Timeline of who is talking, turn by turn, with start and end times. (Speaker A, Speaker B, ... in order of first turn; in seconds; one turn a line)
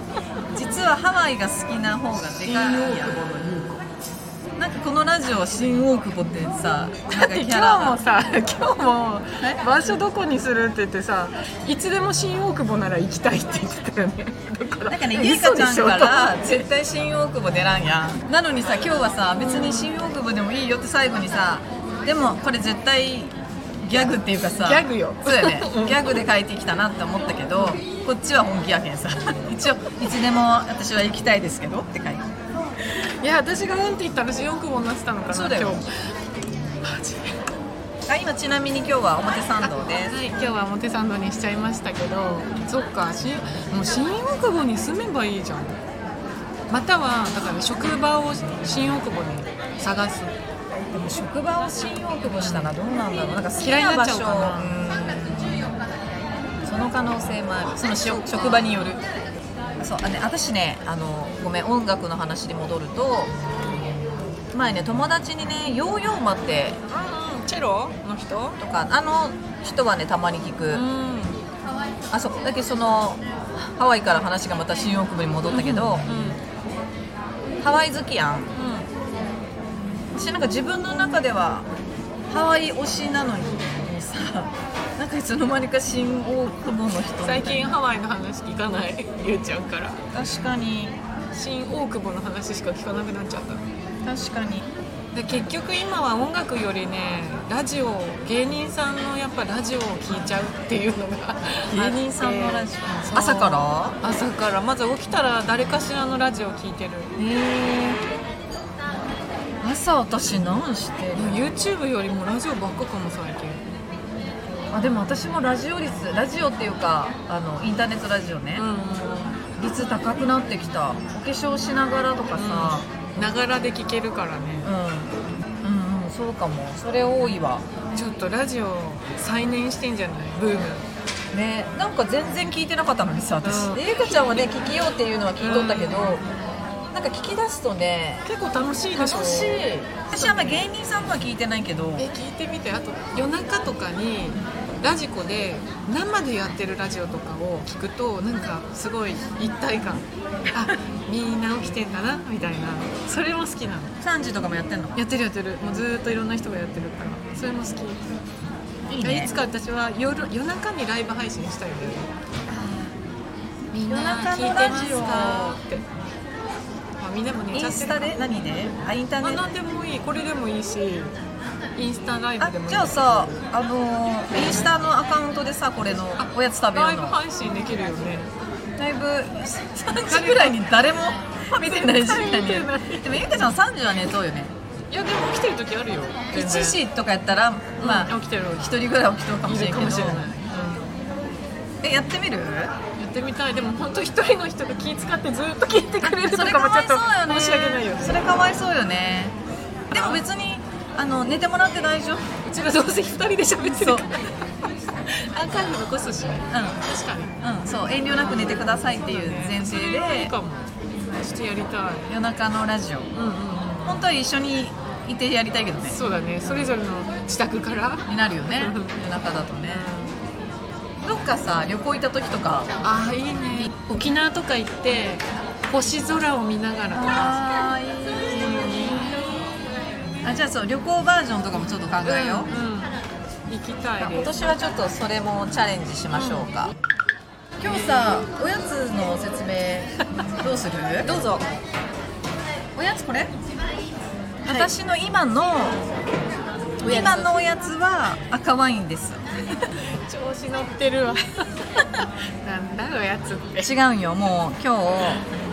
Speaker A: 0.5-3.2
Speaker B: 2.2-3.8
Speaker A: 4.6-8.0
Speaker B: 7.1-16.6
Speaker A: 9.4-9.6
Speaker A: 14.9-32.3
Speaker B: 19.4-19.9
Speaker B: 23.9-26.2
Speaker B: 32.9-36.1
Speaker A: 35.3-35.8
Speaker B: 36.8-37.4
Speaker A: 38.1-40.1
Speaker B: 39.6-45.8
Speaker B: 46.7-50.3
Speaker A: 50.9-55.6
Speaker B: 52.3-52.7
Speaker B: 53.6-54.9
Speaker A: 56.6-59.0
Speaker B: 58.0-58.8
Speaker A: 59.8-63.3
Speaker B: 63.6-63.9
Speaker A: 64.5-66.8
Speaker B: 66.9-68.6
Speaker A: 68.6-70.8
Speaker B: 70.7-71.4
Speaker A: 72.1-76.0
Speaker B: 75.5-76.4
Speaker A: 77.6-78.5
Speaker B: 78.5-78.9
Speaker A: 80.1-81.7
Speaker A: 82.3-87.6
Speaker B: 87.2-90.0
Speaker A: 90.1-91.0
Speaker B: 91.3-93.6
Speaker A: 94.0-94.7
Speaker B: 95.1-107.1
Speaker A: 101.7-104.0
Speaker A: 107.2-108.0
Speaker A: 109.6-111.4
Speaker B: 111.1-113.6
Speaker A: 114.7-118.7
Speaker B: 118.5-119.4
Speaker A: 119.6-122.9
Speaker B: 122.3-124.7
Speaker A: 124.6-127.6
Speaker B: 127.9-130.9
Speaker A: 131.3-136.2
Speaker B: 133.4-134.4
Speaker B: 135.4-136.4
Speaker A: 136.9-138.2
Speaker B: 138.2-140.7
Speaker A: 138.9-142.1
Speaker B: 142.0-154.0
Speaker A: 154.0-155.0
Speaker B: 154.9-158.0
Speaker A: 158.9-159.3
Speaker B: 159.0-162.1
Speaker A: 162.5-162.9
Speaker B: 163.7-165.8
Speaker A: 163.9-165.6
Speaker B: 167.0-168.2
Speaker A: 167.5-169.5
Speaker B: 169.2-171.1
Speaker B: 171.8-173.4
Speaker A: 172.4-177.2
Speaker B: 176.2-178.3
Speaker A: 178.8-184.5
Speaker B: 180.1-180.6
Speaker B: 181.5-183.3
Speaker B: 184.9-186.8
Speaker A: 186.3-190.2
Speaker B: 187.8-188.7
Speaker B: 189.4-191.0
Speaker A: 191.8-192.7
Speaker B: 193.0-198.2
Speaker A: 196.0-199.3
Speaker A: 199.9-202.3
Speaker B: 199.9-200.2
Speaker B: 202.4-204.3
Speaker A: 203.6-204.0
Speaker B: 205.1-207.3
Speaker A: 206.5-206.8
Speaker A: 207.4-210.3
Speaker B: 208.1-212.1
Speaker A: 212.1-213.1
Speaker B: 213.1-214.0
Speaker A: 213.8-216.0
Speaker B: 215.9-219.0
Speaker A: 218.1-219.9
Speaker B: 219.7-220.2
Speaker A: 221.0-222.7
Speaker B: 222.8-227.4
Speaker A: 226.9-229.3
Speaker B: 228.2-229.4
Speaker A: 230.2-232.5
Speaker B: 232.0-233.0
Speaker B: 233.5-234.3
Speaker A: 234.0-236.7
Speaker B: 236.1-236.5
Speaker A: 237.6-241.4
Speaker B: 237.7-238.0
Speaker A: 242.8-243.3
Speaker B: 244.4-244.7
Speaker A: 244.4-245.8
Speaker B: 246.8-247.4
Speaker A: 246.8-249.2
Speaker B: 249.9-253.7
Speaker A: 253.6-255.2